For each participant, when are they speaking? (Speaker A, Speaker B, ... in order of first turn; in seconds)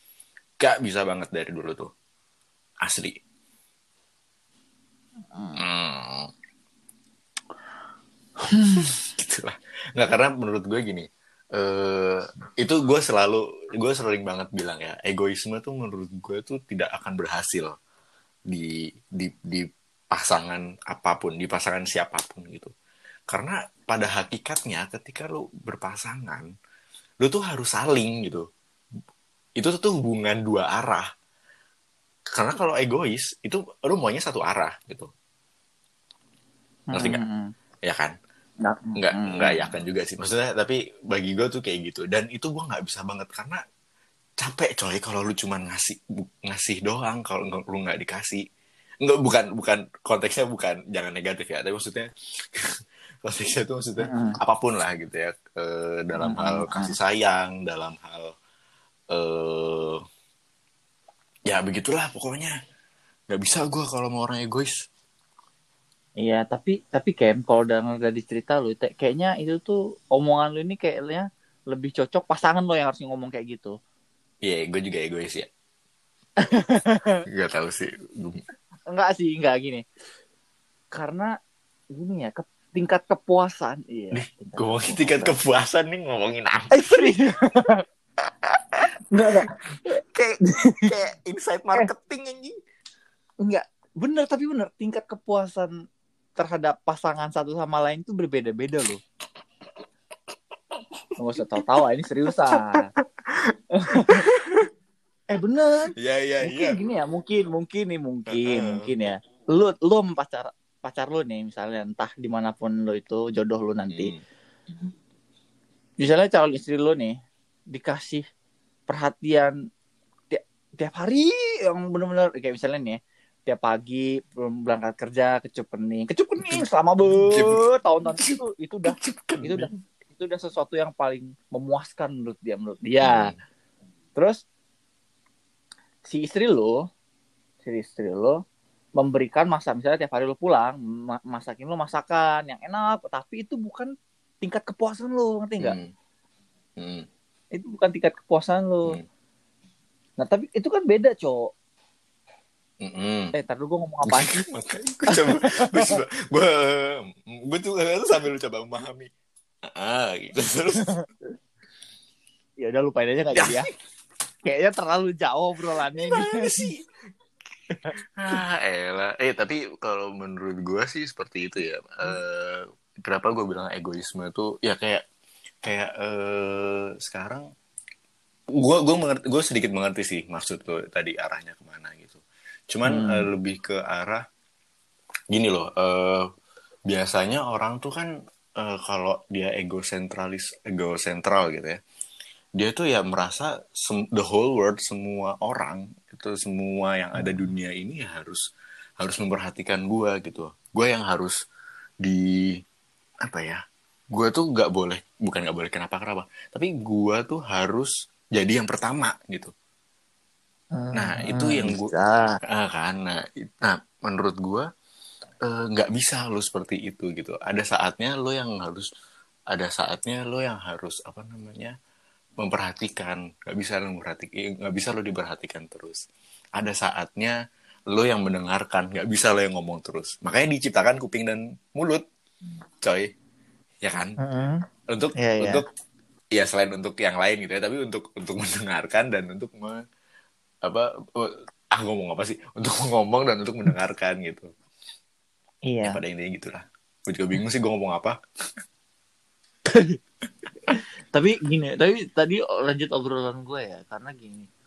Speaker A: 0.6-1.9, 2.8-3.2, 5.6-6.3, 8.8-17.8, 18.5-22.7, 23.3-26.5, 27.2-28.5, 29.6-31.1, 32.3-35.1, 36.9-37.2, 37.9-38.1, 39.0-43.6, 44.4-48.4, 49.0-58.3, 59.1-60.0, 61.5-62.5, 63.3-64.8, 74.4-75.5, 77.3-78.4, 84.1-87.1, 88.2-89.5, 90.8-92.6, 102.4-103.0, 103.9-104.7, 106.0-106.8, 108.3-108.9, 113.9-114.2, 127.2-127.6, 128.1-129.8, 133.0-133.4, 145.6-145.9, 146.8-147.1, 152.8-153.3, 154.1-159.1, 159.8-161.0, 163.3-163.6, 165.9-166.8, 168.2-175.0, 175.6-177.5, 178.6-184.2, 185.3-186.2, 186.9-191.8, 192.6-198.4, 199.0-201.3, 202.0-202.6, 203.2-209.5, 210.9-211.9, 212.5-214.7, 215.5-218.9, 219.5-221.8, 222.4-226.0, 226.6-227.3, 227.9-232.0, 232.8-233.1, 233.8-234.2, 234.9-235.7, 236.3-239.8, 240.6-244.5, 245.8-248.2
Speaker B: 5.3-5.6, 8.4-9.0, 36.9-37.5, 38.6-39.8, 54.0-54.4, 56.2-56.9, 66.2-73.8, 76.4-77.2, 78.9-79.8, 80.9-81.3, 81.9-85.3, 86.7-87.8, 89.1-90.9, 93.4-95.7, 96.4-99.0, 101.2-102.9, 103.8-104.3, 105.3-114.1, 116.0-117.1, 117.7-118.2, 118.9-119.6, 120.3-133.3, 134.2-134.4, 136.1-136.8, 137.6-138.4, 139.0-145.8, 147.5-149.0, 150.2-151.5, 153.3-154.5, 155.1-156.0, 162.6-163.7, 164.4-166.6, 182.9-183.3, 197.2-197.5, 210.7-212.4, 234.2-234.6, 235.2-235.6, 245.7-246.0, 249.7-250.0, 250.7-254.5